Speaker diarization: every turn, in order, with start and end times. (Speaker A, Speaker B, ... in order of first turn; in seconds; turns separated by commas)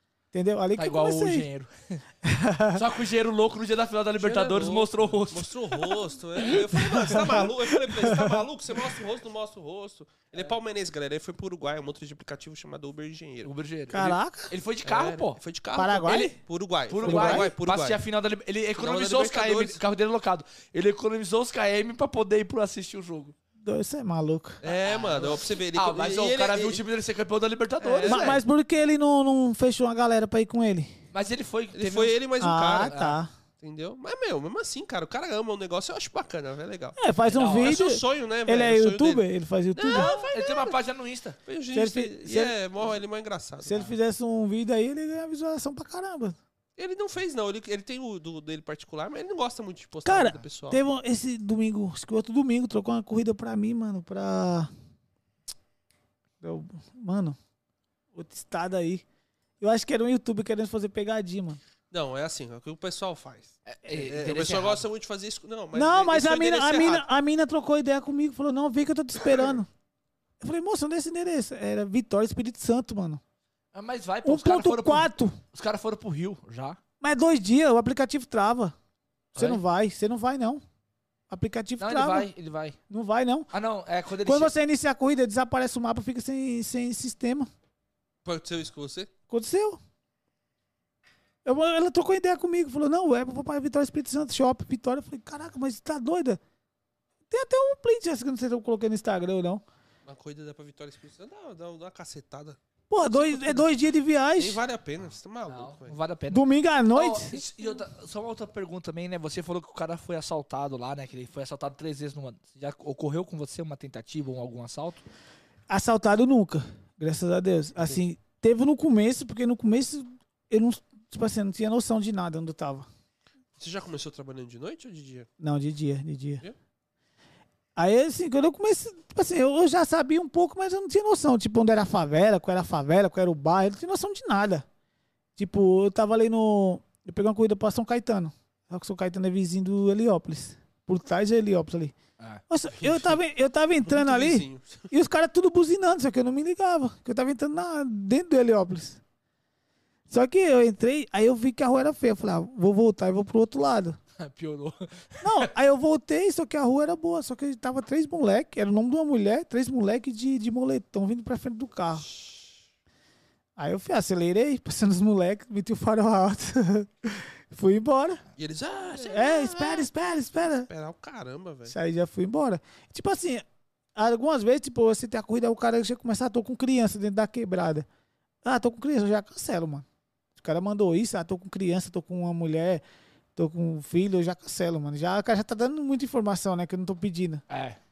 Speaker A: 0.3-1.5, Speaker B: 0.8-2.0, Speaker A: 2.2-2.8, Speaker B: 2.7-7.5, Speaker C: 4.2-13.5, Speaker A: 6.8-8.4, Speaker B: 13.4-15.4, Speaker A: 13.9-14.5, Speaker C: 14.8-18.0, Speaker A: 15.8-16.4, Speaker B: 16.1-16.3, Speaker B: 16.9-23.3, Speaker A: 17.0-17.5, Speaker C: 18.8-19.8, Speaker A: 23.6-24.6, Speaker C: 24.6-26.8, Speaker B: 24.6-28.4, Speaker C: 27.8-28.4, Speaker A: 28.0-30.9, Speaker B: 31.1-32.2, Speaker C: 31.7-33.0, Speaker A: 32.4-33.3, Speaker B: 32.9-33.2, Speaker C: 33.6-39.2, Speaker A: 37.0-40.3, Speaker B: 37.3-37.8, Speaker C: 39.7-40.7, Speaker B: 39.9-41.4, Speaker C: 41.5-43.9, Speaker A: 41.7-42.5, Speaker A: 43.6-46.4, Speaker C: 46.8-50.8, Speaker A: 50.0-54.7, Speaker A: 56.4-57.4, Speaker A: 58.1-59.0, Speaker A: 59.6-61.6, Speaker C: 61.9-67.0, Speaker B: 63.6-64.8, Speaker A: 65.7-69.7, Speaker A: 70.4-73.2, Speaker B: 73.7-76.8, Speaker A: 74.2-75.4, Speaker A: 77.0-78.7, Speaker B: 79.3-79.6, Speaker A: 79.3-80.6, Speaker A: 81.3-82.3, Speaker B: 81.8-82.8, Speaker A: 82.9-83.5, Speaker B: 83.5-84.5, Speaker A: 84.2-87.5, Speaker C: 88.2-89.1, Speaker A: 89.3-89.8, Speaker A: 91.4-96.4, Speaker A: 97.3-99.6, Speaker C: 100.0-102.6, Speaker A: 102.9-104.6, Speaker B: 103.1-103.6, Speaker C: 104.4-106.0, Speaker B: 105.5-115.0, Speaker A: 106.3-107.4, Speaker A: 115.7-122.9, Speaker C: 123.6-125.3, Speaker A: 125.4-126.4, Speaker A: 127.8-134.7, Speaker A: 135.3-141.9, Speaker A: 142.5-149.0, Speaker C: 143.8-144.9, Speaker A: 150.1-154.0, Speaker B: 154.2-155.5, Speaker A: 155.2-162.1, Speaker A: 163.6-168.2, Speaker C: 168.4-169.9, Speaker A: 169.0-170.7, Speaker C: 170.7-171.7, Speaker A: 171.7-173.4, Speaker A: 173.9-177.9, Speaker A: 178.4-182.8, Speaker A: 183.3-187.4, Speaker B: 187.5-187.8